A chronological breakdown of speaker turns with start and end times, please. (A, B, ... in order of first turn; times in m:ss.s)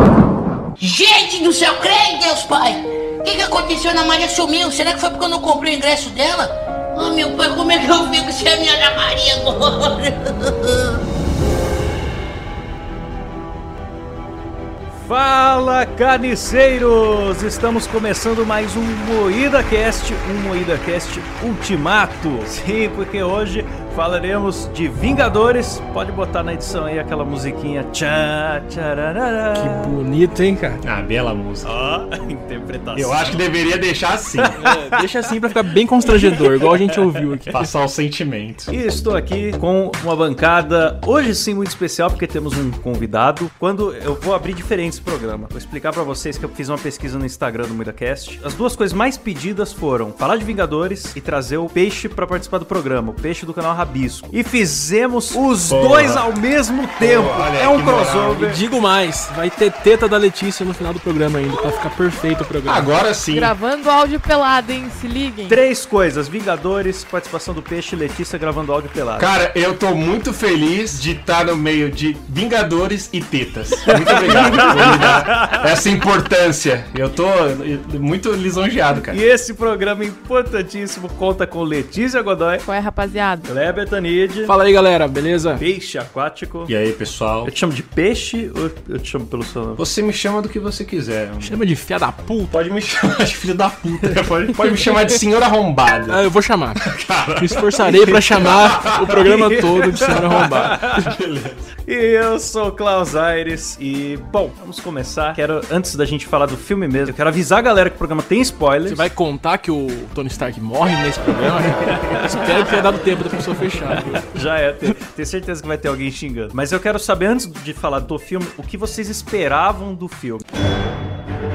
0:00.8-0:11.0 A
0:15.0-0:29.9 B
0:29.5-0:30.8 C
0:30.8-0:31.7 D
0:31.6-0:33.4 B
0:33.0-0:34.6 D
0:34.4-0:35.0 B
0:34.6-0:37.7 C
0:37.5-0:38.7 D
0:38.7-0:58.6 B
0:55.7-0:56.3 D
0:57.0-0:58.4 D
0:58.4-1:02.9 C
1:02.6-1:03.5 D
1:03.3-1:05.6 E
1:05.5-1:09.3 B
1:09.2-1:19.2 D
1:13.9-1:15.7 B
1:19.1-1:22.7 B
1:22.7-1:23.5 E
1:23.5-1:24.5 B
1:24.5-1:25.6 C
1:25.6-1:26.7 B
1:26.7-1:27.5 D
1:27.4-1:29.8 B
1:29.8-1:31.6 D
1:31.4-1:32.6 C
1:32.5-1:36.2 D
1:36.1-1:36.8 C
1:36.8-1:39.2 D
1:37.4-1:41.1 C
1:39.2-1:41.0 B
1:40.4-1:41.6 D
1:41.9-1:49.0 B
1:48.9-1:54.3 C
1:51.8-2:00.4 B